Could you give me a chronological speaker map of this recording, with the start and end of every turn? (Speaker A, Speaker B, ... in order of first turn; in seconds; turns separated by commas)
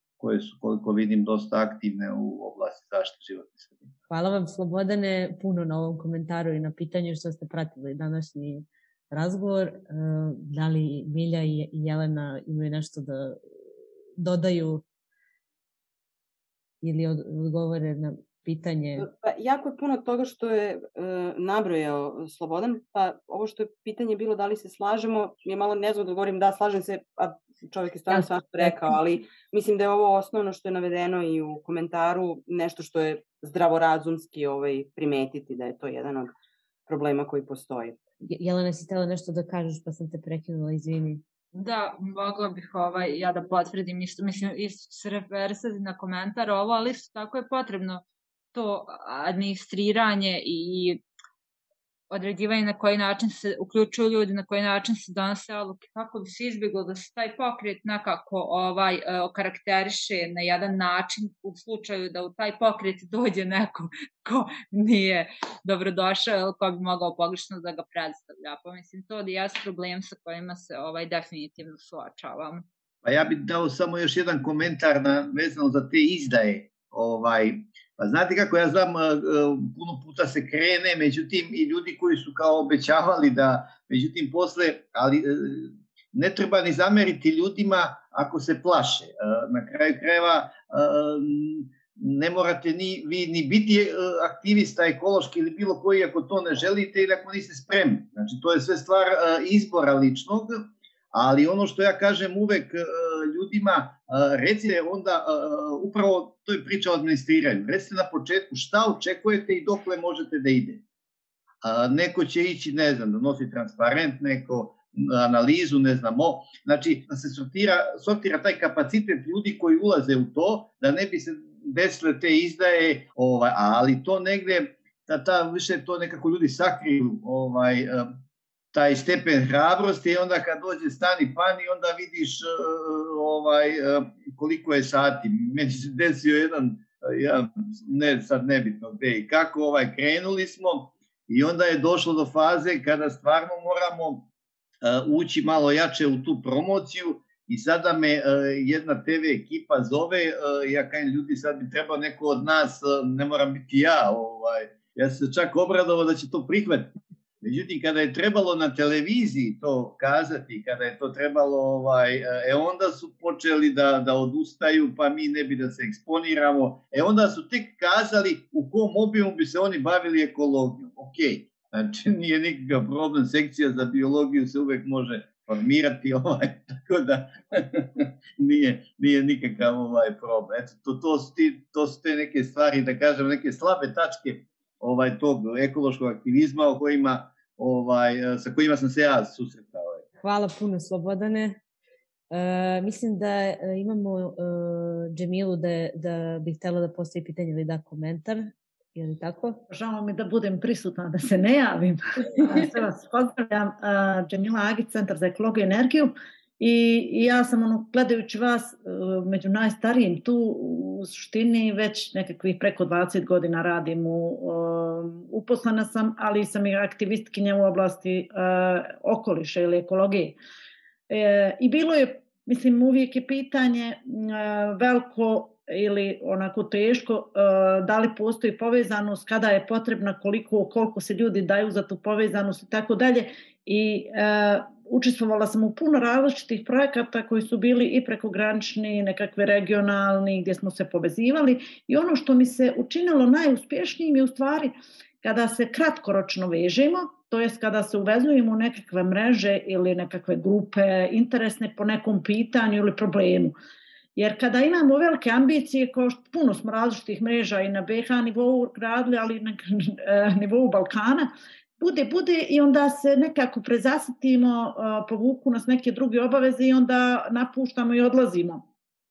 Speaker A: 0.2-3.9, Speaker B: 4.1-13.4, Speaker B: 14.2-14.8, Speaker B: 16.8-19.1, Speaker C: 19.0-36.3, Speaker B: 28.1-28.7, Speaker C: 36.9-38.0, Speaker B: 38.2-41.2, Speaker D: 41.5-48.0, Speaker D: 48.5-51.0, Speaker D: 52.1-72.6, Speaker A: 73.0-110.8, Speaker A: 111.6-128.1, Speaker A: 128.7-144.3, Speaker A: 144.8-190.0, Speaker B: 190.2-191.6, Speaker B: 192.3-199.6, Speaker E: 199.7-220.4, Speaker E: 221.1-253.5, Speaker E: 254.2-261.3, Speaker E: 261.8-268.6